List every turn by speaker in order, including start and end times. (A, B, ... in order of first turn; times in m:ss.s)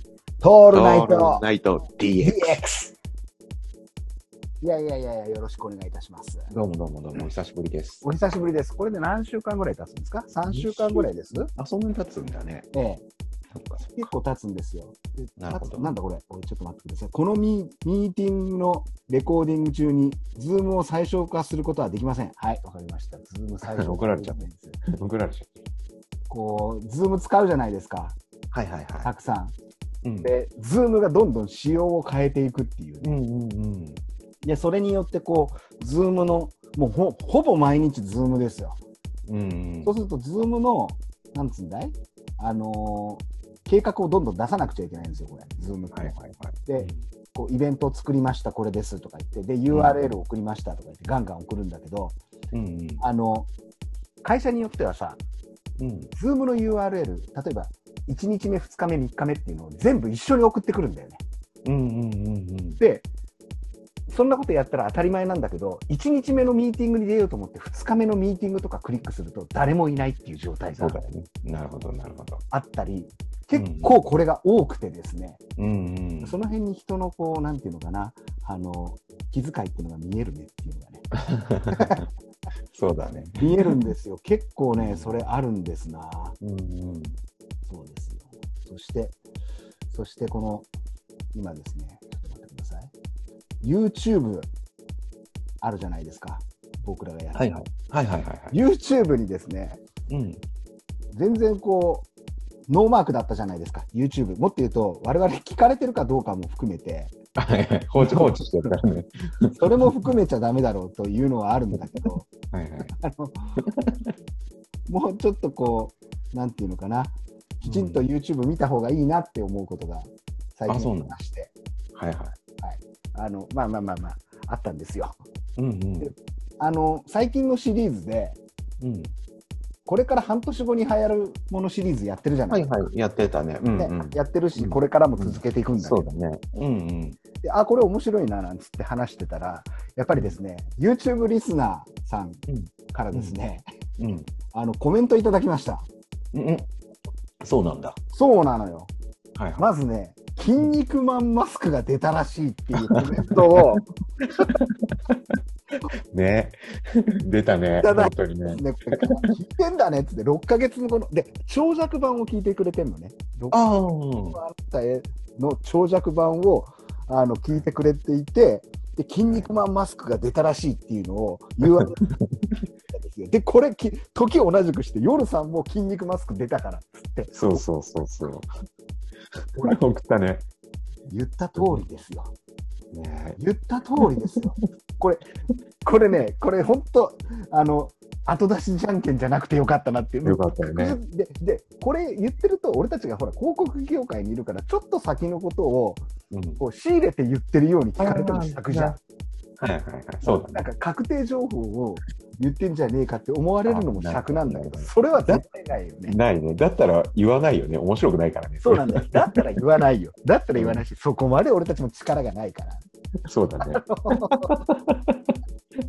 0:00.4-0:01.4 A
0:00.7-0:02.6 B
0:02.2-0:03.0 A
0:04.6-0:06.5 A
0:06.5-0:08.1 B
0:08.0-0:11.5 A
0:10.4-0:12.7 B
0:12.7-0:13.0 A
0:13.5-0:14.1 B
0:13.9-0:24.8 A
0:15.4-0:15.9 B
0:23.7-0:25.5 B
0:26.3-0:28.2 A
0:28.5-0:29.1 B
0:29.0-0:29.5 A
0:30.0-0:30.3 B
0:30.2-0:33.2 A
0:33.0-0:34.0 B
0:34.4-0:38.8 A
0:39.3-0:39.9 B
0:39.8-0:46.1 A
0:45.9-0:47.0 B
0:46.6-0:52.2 A
0:49.7-0:50.1 B
0:52.5-0:53.0 B
0:53.0-0:53.5 A
0:54.2-0:55.2 A
0:55.8-0:56.1 B
0:56.1-1:01.2 A
1:01.6-1:02.8 B
1:02.8-1:03.0 A
1:04.1-1:11.0 A
1:10.8-1:12.4 B
1:12.5-1:15.4 A
1:13.5-1:14.0 B
1:15.6-1:16.4 B
1:16.2-1:21.0 A
1:21.2-1:22.0 B
1:21.7-1:22.0 A
1:22.7-1:23.8 B
1:23.4-1:26.4 A
1:24.7-1:25.2 B
1:26.4-1:27.2 B
1:27.7-1:29.2 A
1:29.9-1:30.7 A
1:31.3-1:32.9 A
1:33.6-1:34.5 A
1:35.6-1:37.4 A
1:37.3-1:38.5 B
1:38.5-1:39.8 A
1:40.1-1:40.4 B
1:41.1-1:42.1 A
1:42.7-1:47.1 A
1:47.4-1:50.1 B
1:48.0-1:48.7 A
1:49.6-1:52.3 A
1:52.5-1:52.9 B
1:52.9-1:53.6 A
1:53.6-1:54.1 B
1:54.9-2:01.5 A
1:57.6-1:58.0 B
2:00.7-2:01.2 B
2:01.9-2:02.4 B
2:02.6-2:05.2 A
2:05.6-2:06.1 B
2:06.0-2:08.4 A
2:08.8-2:09.1 B
2:09.8-2:12.8 A
2:12.5-2:17.2 B
2:13.8-2:16.1 A
2:17.4-2:23.6 A
2:22.5-2:23.4 B
2:24.0-2:24.3 B
2:24.5-2:25.9 A
2:26.3-2:26.7 B
2:27.4-2:28.0 B
2:28.1-2:28.9 A
2:29.4-2:29.6 B
2:29.6-2:33.8 A
2:33.2-2:35.2 B
2:36.1-2:36.6 B
2:37.2-2:39.2 B
2:37.8-2:43.8 A
2:43.5-2:44.4 B
2:44.3-2:52.0 A
2:51.8-2:52.3 B
2:52.9-2:57.6 A
2:57.3-2:58.5 B
2:59.5-3:00.4 B
3:01.1-3:02.3 A
3:01.6-3:01.8 B
3:02.9-3:03.4 B
3:03.4-3:05.2 A
3:04.0-3:04.6 B
3:05.8-3:16.0 A
3:10.2-3:11.0 B
3:16.3-3:16.6 B
3:16.6-3:19.0 A
3:18.0-3:19.0 B
3:19.6-3:20.6 B
3:20.2-3:26.2 A
3:23.7-3:25.4 B
3:26.1-3:29.4 B
3:28.6-3:32.8 A
3:30.5-3:30.8 B
3:33.3-3:35.4 B
3:33.6-3:34.5 A